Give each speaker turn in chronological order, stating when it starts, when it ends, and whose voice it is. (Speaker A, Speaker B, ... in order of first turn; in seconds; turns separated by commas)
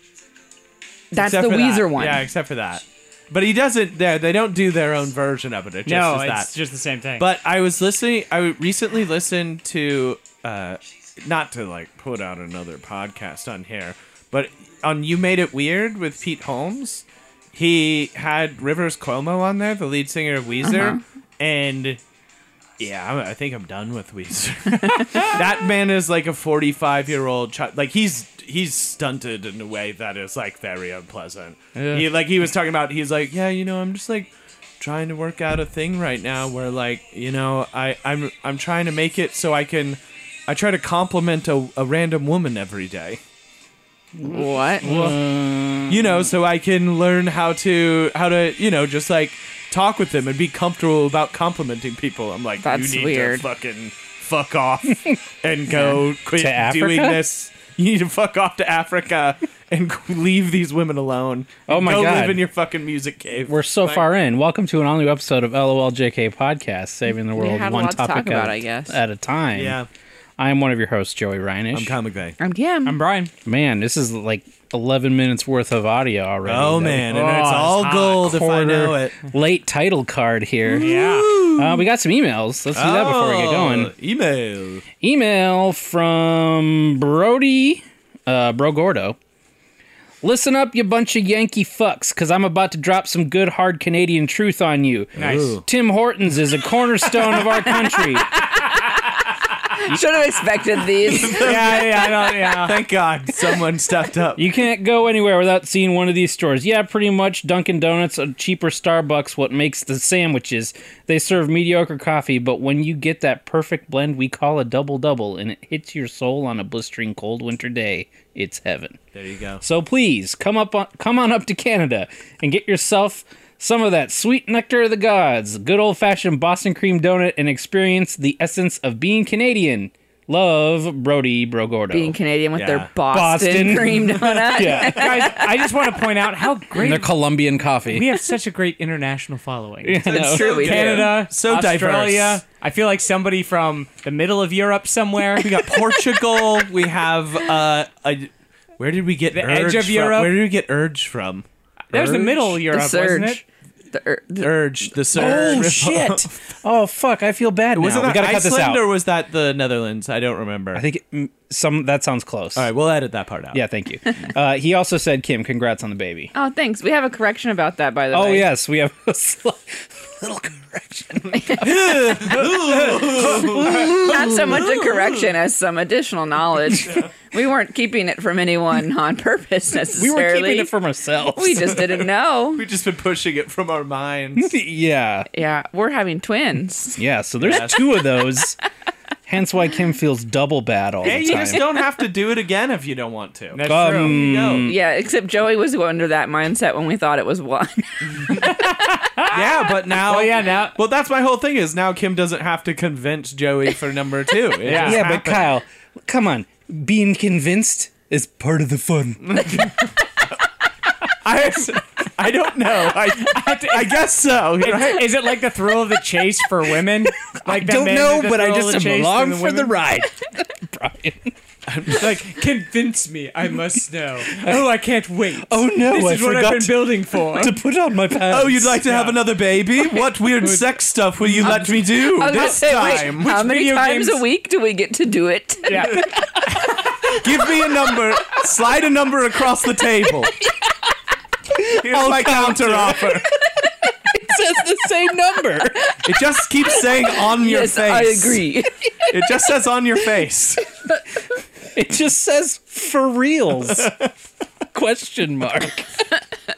Speaker A: 1.1-2.2, Speaker B: 1.1-6.5, Speaker C: 5.8-7.2, Speaker B: 7.2-22.0, Speaker A: 20.6-21.0, Speaker B: 22.8-43.2, Speaker C: 31.7-32.1, Speaker D: 44.2-46.3, Speaker A: 44.2-45.0, Speaker B: 44.8-45.2, Speaker B: 45.9-64.1, Speaker A: 52.6-53.4, Speaker D: 56.4-57.2, Speaker D: 61.7-62.4, Speaker D: 63.5-69.8, Speaker A: 67.3-69.0, Speaker B: 69.5-69.9, Speaker D: 70.4-72.0, Speaker B: 71.7-72.4, Speaker A: 72.4-72.9, Speaker C: 72.8-73.3, Speaker D: 73.5-77.1, Speaker B: 76.4-79.1, Speaker C: 77.1-78.4, Speaker D: 78.2-83.9, Speaker C: 80.7-81.4, Speaker B: 80.7-81.8, Speaker B: 82.7-84.8, Speaker D: 85.0-89.2, Speaker D: 90.2-98.4, Speaker C: 95.2-95.6, Speaker B: 95.2-95.6, Speaker A: 97.8-99.0, Speaker A: 99.7-101.5, Speaker B: 101.0-104.4, Speaker C: 101.3-102.8, Speaker D: 104.3-119.0, Speaker B: 119.1-119.6, Speaker D: 119.6-132.2, Speaker A: 131.9-135.6, Speaker B: 132.6-132.9, Speaker D: 133.1-135.3, Speaker C: 134.7-137.1, Speaker D: 136.7-138.1, Speaker C: 137.9-145.6, Speaker D: 139.8-140.4, Speaker B: 140.0-142.4, Speaker A: 140.1-141.1, Speaker B: 145.4-151.4, Speaker C: 149.3-150.4, Speaker D: 151.9-152.5, Speaker C: 151.9-153.4, Speaker A: 152.7-155.7, Speaker B: 154.4-156.3, Speaker D: 155.1-158.8, Speaker B: 157.7-160.8, Speaker D: 160.7-162.7, Speaker B: 162.5-163.6, Speaker D: 163.5-166.3, Speaker A: 166.3-168.5, Speaker D: 168.1-174.7, Speaker A: 171.3-171.9, Speaker B: 171.5-175.3, Speaker A: 173.2-180.7, Speaker B: 176.8-177.1, Speaker D: 179.9-181.8, Speaker A: 181.3-182.6, Speaker B: 181.7-184.5, Speaker D: 184.3-185.3, Speaker A: 185.3-187.0, Speaker D: 187.0-188.6, Speaker B: 187.4-187.9, Speaker D: 189.3-191.6, Speaker B: 191.0-194.7, Speaker A: 191.1-191.8, Speaker C: 193.5-194.2, Speaker D: 193.7-194.8, Speaker A: 194.6-198.4, Speaker C: 198.3-200.8, Speaker B: 199.3-205.4, Speaker C: 204.6-205.1, Speaker D: 204.7-209.7, Speaker B: 209.2-209.7, Speaker B: 211.1-215.1, Speaker C: 213.1-219.7, Speaker D: 217.2-221.3, Speaker B: 221.7-222.6, Speaker C: 222.2-227.6, Speaker D: 224.3-224.7, Speaker D: 225.4-228.8, Speaker B: 228.3-233.3, Speaker C: 228.9-229.2, Speaker C: 230.4-231.8, Speaker A: 231.4-236.0, Speaker C: 232.3-234.2, Speaker C: 235.7-236.0, Speaker B: 237.0-240.3, Speaker D: 241.6-246.0, Speaker B: 241.6-243.3, Speaker B: 246.0-248.4, Speaker A: 247.0-248.8, Speaker B: 249.1-250.7, Speaker D: 251.7-253.9, Speaker D: 254.7-256.1